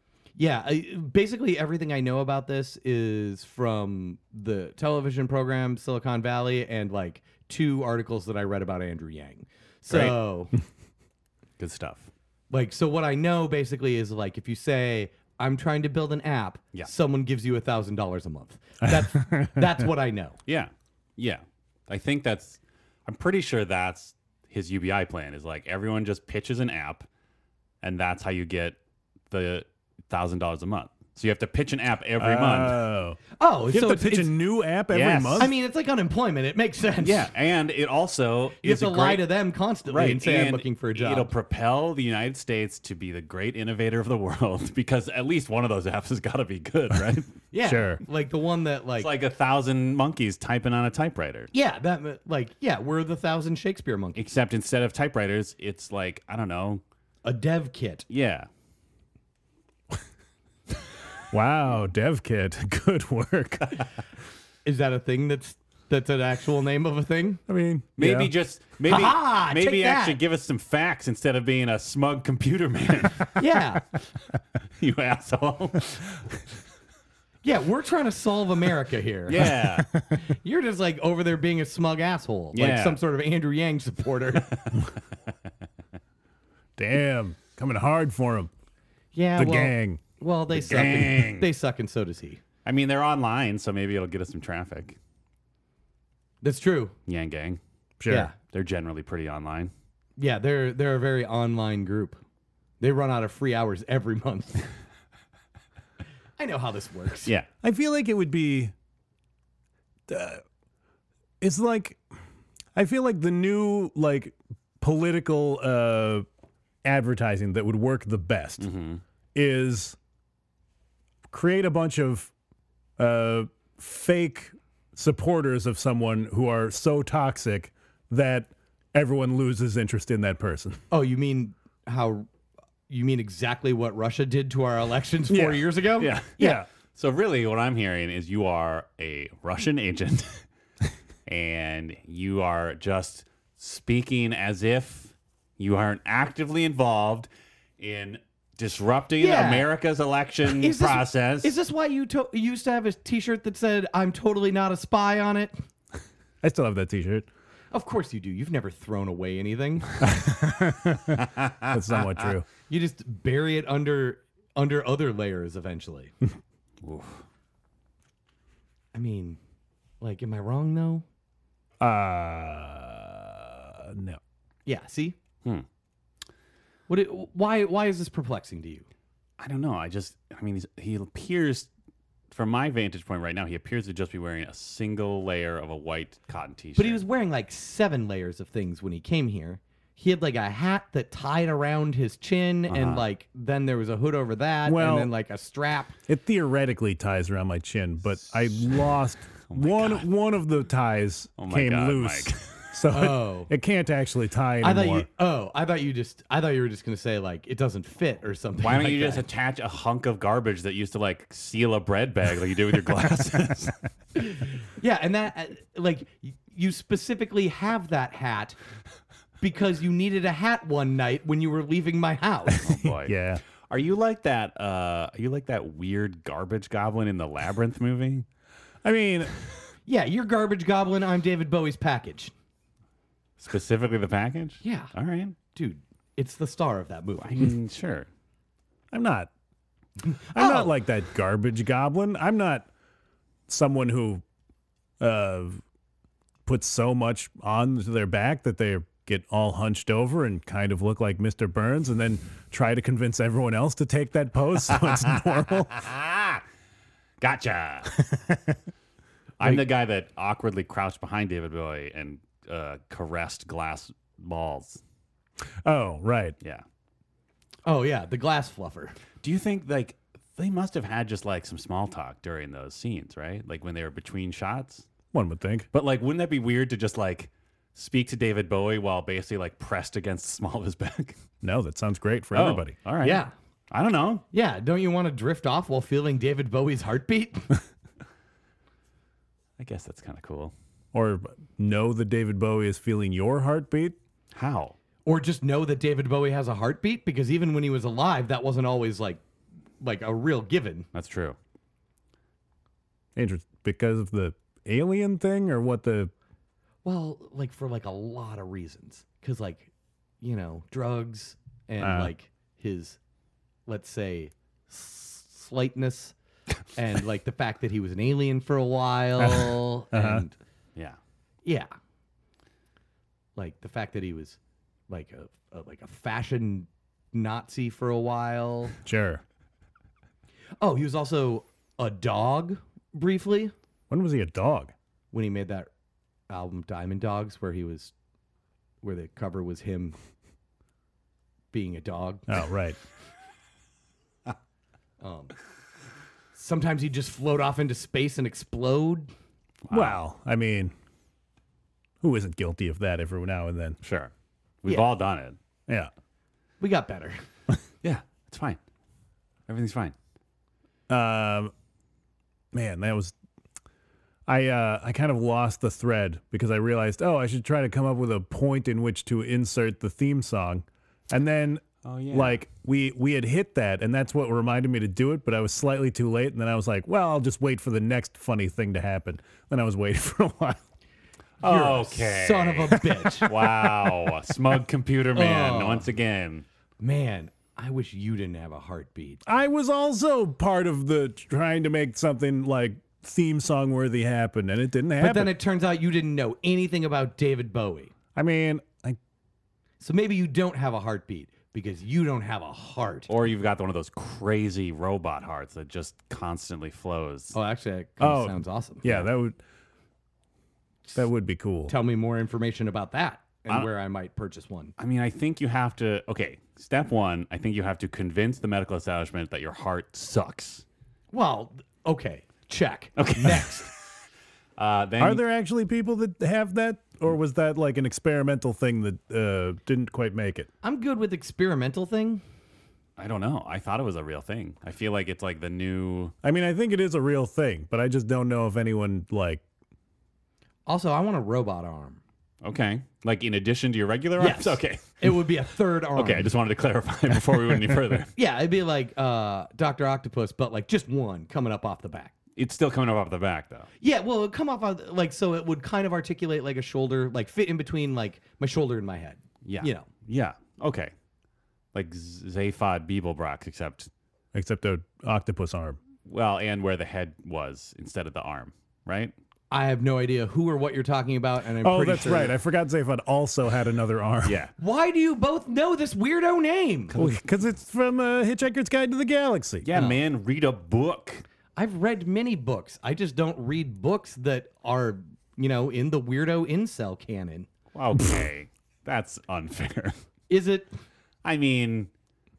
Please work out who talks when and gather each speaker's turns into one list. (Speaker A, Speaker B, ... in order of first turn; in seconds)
Speaker A: 0.3-10.5, 12.5-20.4, 33.4-34.3, 35.4-37.3, 38.6-41.3, 47.5-49.1, 51.5-54.2, 57.2-58.0, 64.6-67.4, 68.9-70.2, 73.3-73.8, 77.4-79.5, 80.2-84.8, 89.1-92.4, 96.4-96.9, 98.1-98.3, 100.2-102.2, 102.8-104.7, 106.4-107.3, 130.9-132.3, 132.9-136.6, 149.2-149.7, 150.4-155.5, 157.7-160.0, 162.7-166.1, 168.9-169.4, 170.0-171.0, 174.7-175.2, 176.9-178.8, 186.8-195.9, 202.9-203.5, 204.6-209.2, 214.2-218.6, 219.4-222.7, 229.8-232.3, 234.6-234.9, 235.5-237.5, 240.3-240.7, 267.6-269.0, 283.0-283.3, 284.3-287.6, 295.1-299.2, 299.8-300.9, 306.8-309.7, 310.2-313.0, 313.7-316.1, 316.7-320.3, 321.4-321.7, 323.4-324.4, 324.9-328.7, 330.6-333.5, 335.1-335.7, 336.3-337.9, 338.8-339.9, 341.5-342.4, 345.0-345.3, 346.3-349.1, 356.6-357.2, 381.4-383.3, 385.1-385.9, 386.8-389.2, 395.0-397.9, 399.8-403.1, 407.3-408.8, 411.7-414.7, 421.1-423.7, 430.6-432.2, 440.7-442.0, 444.2-446.3, 448.1-452.1, 453.8-459.9, 469.5-472.3, 474.6-476.9, 479.7-480.0, 481.6-487.5, 490.3-490.7
Speaker B: 9.9-10.2, 11.6-12.1, 20.4-27.1, 27.8-28.8, 29.3-32.8, 34.9-35.5, 37.0-39.2, 39.9-47.3, 49.0-51.5, 54.1-56.8, 58.1-58.5, 68.0-73.3, 74.8-76.1, 79.3-79.9, 82.5-83.0, 90.5-91.5, 92.6-95.0, 97.1-97.6, 98.5-99.7, 118.6-119.0, 136.0-136.4, 136.9-140.4, 141.2-151.5, 161.2-161.7, 166.8-167.2, 179.4-181.7, 182.3-187.0, 192.7-193.0, 199.5-200.1, 201.4-202.7, 208.6-213.8, 222.6-228.2, 233.4-235.3, 237.2-238.1, 255.7-256.4, 257.2-257.9, 259.4-264.8, 269.2-274.9, 275.7-281.2, 282.3-284.2, 289.6-290.5, 294.3-294.8, 300.9-301.4, 349.6-350.0, 353.8-354.1, 354.6-355.4, 357.8-358.6, 359.5-359.9, 371.8-372.4, 381.4-386.4, 403.1-407.4, 414.8-420.6, 423.0-423.6, 424.6-425.2, 433.0-436.1, 442.4-445.0, 445.9-448.1, 452.4-453.7, 459.4-460.9, 461.7-463.9, 466.0-469.1, 474.2-474.5, 476.9-477.2, 479.6-481.2, 487.7-489.9, 491.2-491.9
Speaker C: 18.8-19.7, 32.2-35.5, 47.6-48.0, 61.3-63.8, 67.5-68.3, 79.5-80.2, 86.8-88.5, 89.4-90.0, 98.0-98.3, 107.6-108.7, 110.1-110.4, 111.4-112.0, 112.7-116.2, 116.8-118.7, 119.3-120.0, 121.3-122.3, 123.0-130.8, 135.3-135.7, 136.4-136.7, 156.4-157.3, 160.0-162.4, 171.8-174.2, 194.6-195.1, 196.1-205.1, 223.0-223.4, 228.8-229.5, 238.9-239.3, 240.3-242.7, 243.5-244.2, 245.0-245.6, 246.4-255.8, 257.9-258.6, 265.6-266.4, 275.1-275.7, 281.4-282.7, 290.9-294.0, 303.1-306.1, 311.8-312.1, 319.2-320.2, 328.8-329.2, 333.9-334.7, 342.3-342.8, 349.7-350.7, 352.0-353.8, 360.9-361.5, 362.5-363.1, 364.3-380.6, 383.0-384.1, 389.2-395.3, 398.1-399.0, 408.0-409.4, 410.9-411.7, 425.0-430.5, 436.2-439.4, 464.3-465.8, 471.6-474.4, 476.9-479.6